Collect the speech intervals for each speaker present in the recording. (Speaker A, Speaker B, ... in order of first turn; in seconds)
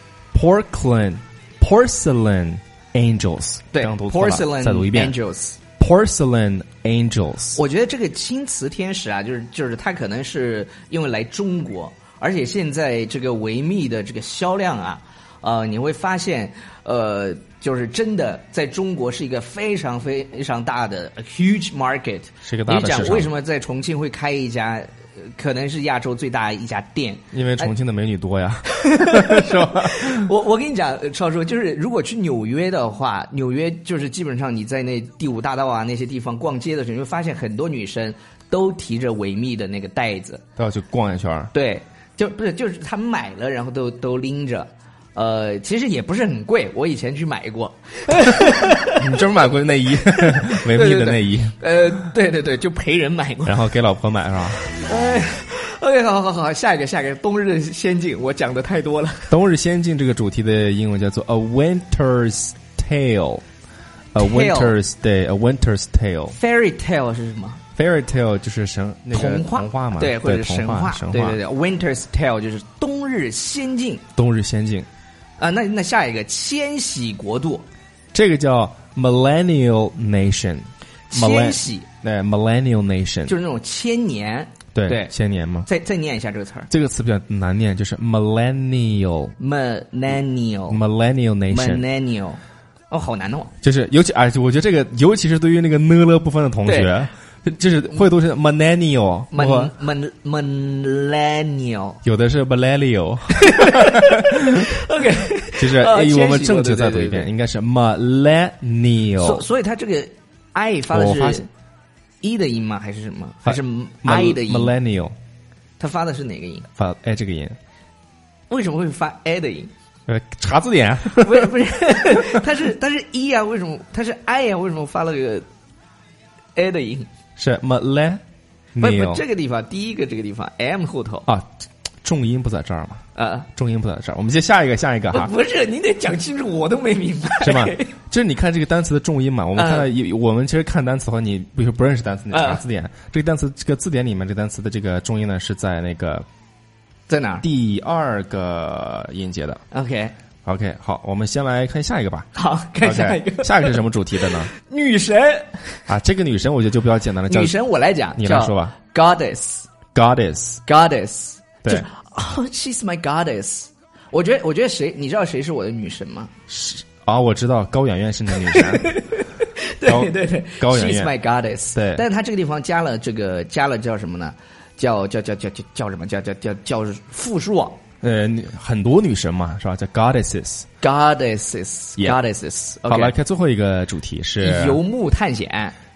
Speaker A: 0.3-5.2, 5.8-7.6, 22.4-23.3, 27.3-30.3, 40.6-41.5, 48.8-51.6, 53.5-54.7, 59.3-63.4, 64.1-66.4, 67.8-71.4, 74.2-74.9, 78.1-83.3, 84.8-85.7, 86.7-89.3, 90.7-91.9, 93.6-99.7, 102.0-104.7, 105.6-109.4, 110.9-111.4, 113.5-115.2, 116.8-117.6, 120.1-121.6, 127.4-128.2, 128.8-129.2, 131.3-135.3, 137.4-146.3, 147.4-149.6, 150.4-152.3, 152.8-154.5, 155.9-157.5, 158.2-158.8, 159.9-160.6, 166.5-169.0, 169.8-171.1, 171.7-172.0, 178.0-180.7, 182.8-184.8
Speaker B: 3.7-5.6, 7.5-27.7, 28.7-40.4, 41.5-49.1, 50.1-53.6, 54.7-59.4, 64.2-64.8, 66.3-67.6, 69.1-74.0, 75.4-77.7, 81.1-81.9, 83.3-85.1, 85.7-86.7, 89.4-90.8, 91.5-93.5, 96.7-96.9, 99.3-102.0, 103.3-107.3, 109.2-111.5, 112.2-114.8, 115.8-116.7, 118.5-119.7, 121.2-125.5, 126.6-127.1, 128.8-131.3, 133.2-133.5, 135.1-137.9, 139.6-139.9, 142.3-142.6, 147.1-147.5, 149.7-150.1, 152.3-155.8, 157.3-159.7, 160.7-166.3, 168.5-177.8, 180.8-183.2, 184.4-185.8